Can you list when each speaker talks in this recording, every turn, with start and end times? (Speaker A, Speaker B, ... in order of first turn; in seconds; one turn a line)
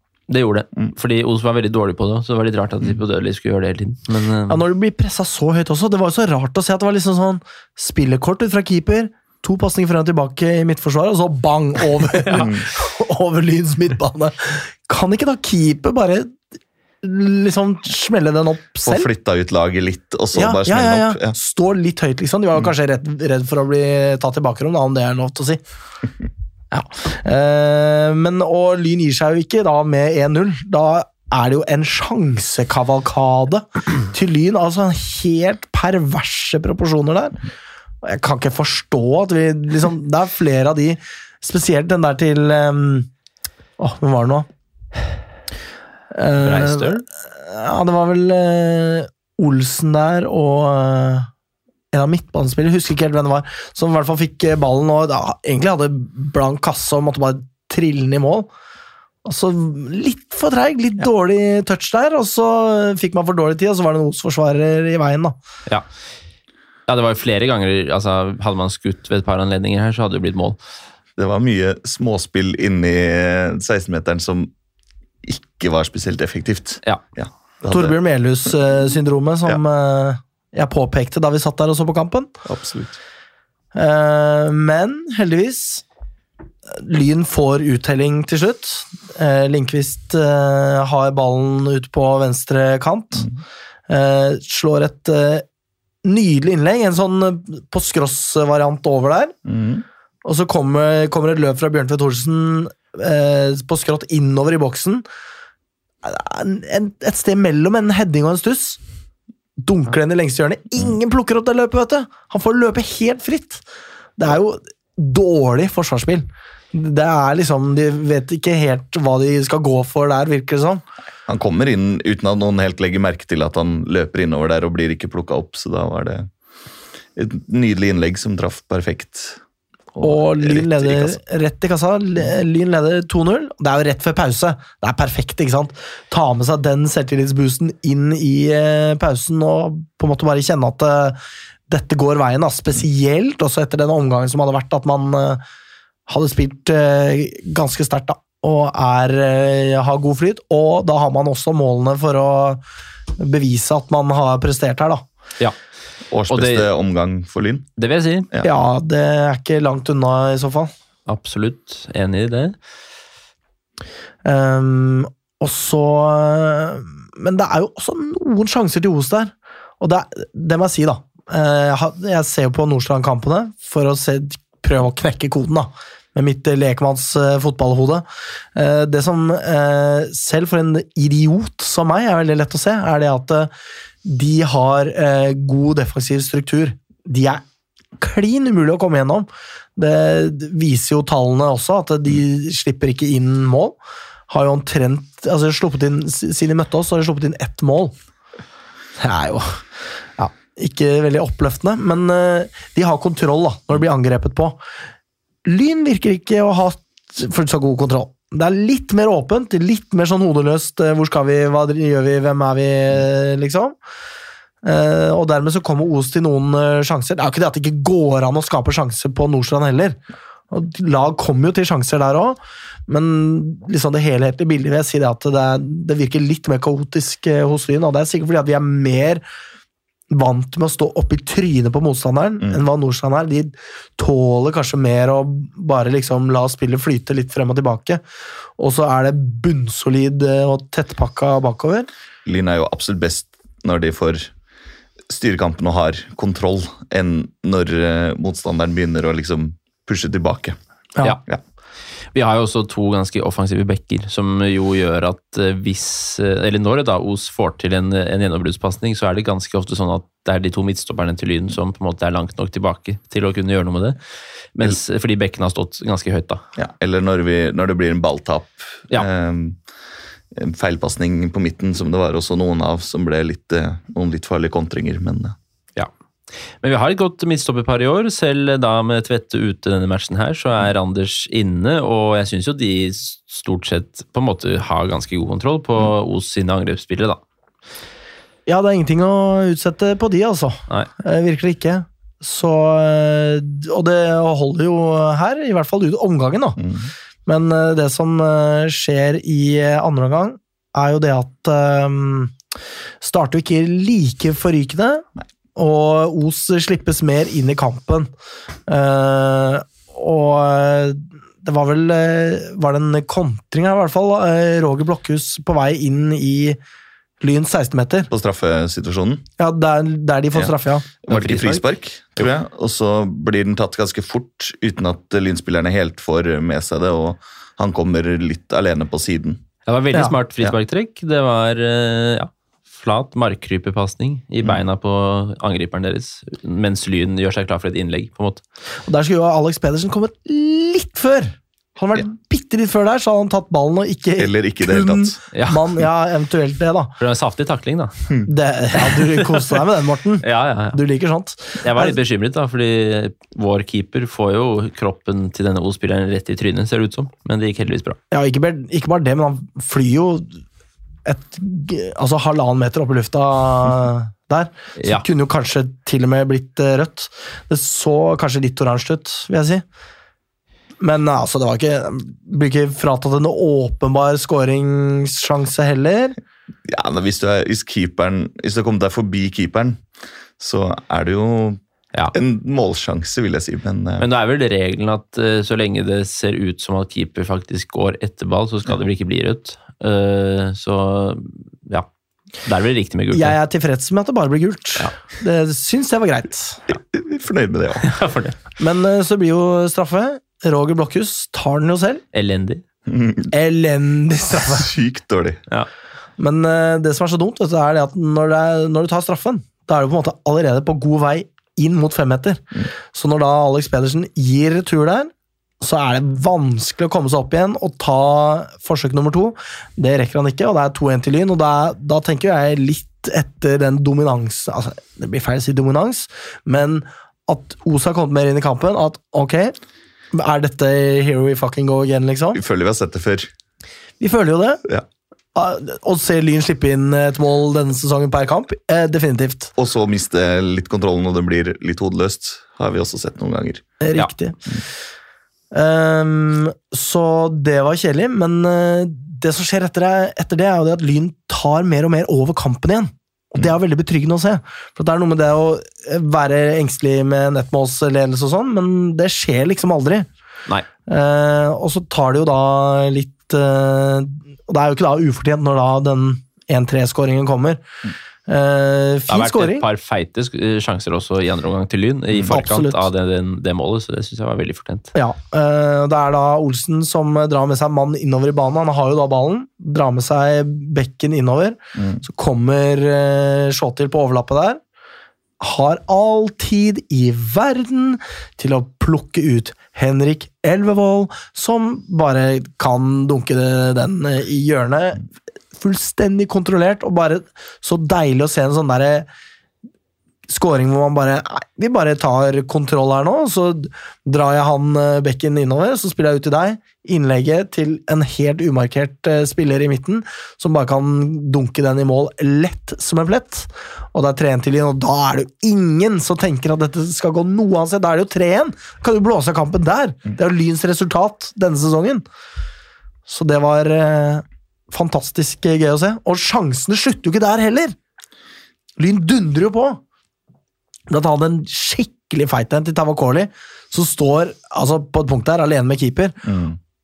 Speaker A: 0.3-4.6
Speaker B: 4.5-16.4
Speaker A: 12.2-12.5
Speaker B: 17.0-19.1
Speaker C: 18.9-21.4
Speaker B: 20.3-25.6
Speaker B: 26.7-37.4
Speaker B: 38.0-43.1
Speaker B: 43.8-44.5
Speaker B: 46.1-51.3
Speaker A: 46.4-47.0
Speaker B: 51.9-58.5
Speaker B: 59.2-65.4
Speaker A: 66.9-70.6
Speaker C: 71.2-74.5
Speaker C: 75.2-78.0
Speaker B: 77.7-82.3
Speaker C: 82.5-83.0
Speaker B: 83.7-85.8
Speaker B: 86.7-93.3
Speaker B: 93.9-95.5
Speaker B: 96.0-99.3
Speaker C: 99.5-99.8
Speaker B: 100.2-105.0
Speaker B: 106.0-108.8
Speaker B: 109.6-113.6
Speaker B: 114.2-120.8
Speaker C: 121.3-126.3
Speaker C: 127.2-129.4
Speaker C: 129.9-131.2
Speaker B: 130.0-145.4
Speaker B: 146.1-152.6
Speaker B: 153.2-155.0
Speaker C: 156.1-157.7
Speaker A: 156.3-156.7
Speaker A: 157.8-158.3
Speaker B: 158.4-160.7
Speaker A: 161.1-162.6
Speaker B: 164.2-183.5
Speaker B: 184.0-187.4
Speaker B: 188.0-193.8
Speaker B: 194.3-197.9
Speaker B: 199.0-199.6
Speaker B: 200.2-204.6
Speaker B: 205.4-213.8
Speaker B: 214.6-220.0
Speaker B: 220.5-229.2
Speaker B: 230.1-238.0
Speaker B: 238.6-241.9
Speaker C: 242.2-244.3
Speaker C: 245.1-250.6
Speaker A: 252.1-264.0
Speaker A: 264.6-266.4
Speaker C: 266.6-269.6
Speaker C: 270.3-275.4
Speaker A: 276.6-287.2
Speaker B: 288.5-296.6
Speaker C: 296.6-296.9
Speaker B: 297.3-302.3
Speaker B: 303.0-308.1
Speaker B: 308.7-316.6
Speaker B: 317.2-318.1
Speaker C: 318.1-319.3
Speaker B: 319.4-321.4
Speaker C: 321.0-329.4
Speaker A: 321.1-321.6
Speaker A: 329.7-338.4
Speaker B: 338.9-346.9
Speaker C: 344.2-345.2
Speaker A: 345.3-345.6
Speaker A: 347.0-348.1
Speaker B: 348.3-351.9
Speaker A: 348.9-349.6
Speaker A: 350.2-350.8
Speaker A: 351.6-358.0
Speaker B: 358.1-360.4
Speaker B: 361.1-369.6
Speaker B: 370.8-376.2
Speaker C: 376.7-379.8
Speaker C: 380.4-381.6
Speaker C: 382.1-384.1
Speaker A: 384.0-391.9
Speaker A: 392.4-393.4
Speaker B: 393.1-396.6
Speaker C: 396.7-397.9
Speaker A: 397.8-398.4
Speaker B: 398.6-402.0
Speaker A: 402.1-402.6
Speaker C: 402.9-403.3
Speaker B: 403.3-404.7
Speaker C: 404.4-405.4
Speaker B: 406.2-429.6
Speaker B: 430.1-432.4
Speaker C: 432.3-433.3
Speaker B: 434.0-434.6
Speaker B: 435.4-439.5
Speaker C: 439.6-443.6
Speaker B: 443.8-444.4
Speaker B: 445.5-460.1
Speaker B: 460.9-467.6
Speaker B: 468.3-469.7
Speaker A: 469.1-474.9
Speaker B: 472.3-472.9
Speaker B: 474.9-484.6
Speaker C: 481.8-482.0
Speaker B: 485.4-499.1
Speaker B: 500.3-522.0
Speaker B: 523.1-527.8
Speaker B: 528.8-529.8
Speaker B: 530.9-536.2
Speaker C: 536.2-536.6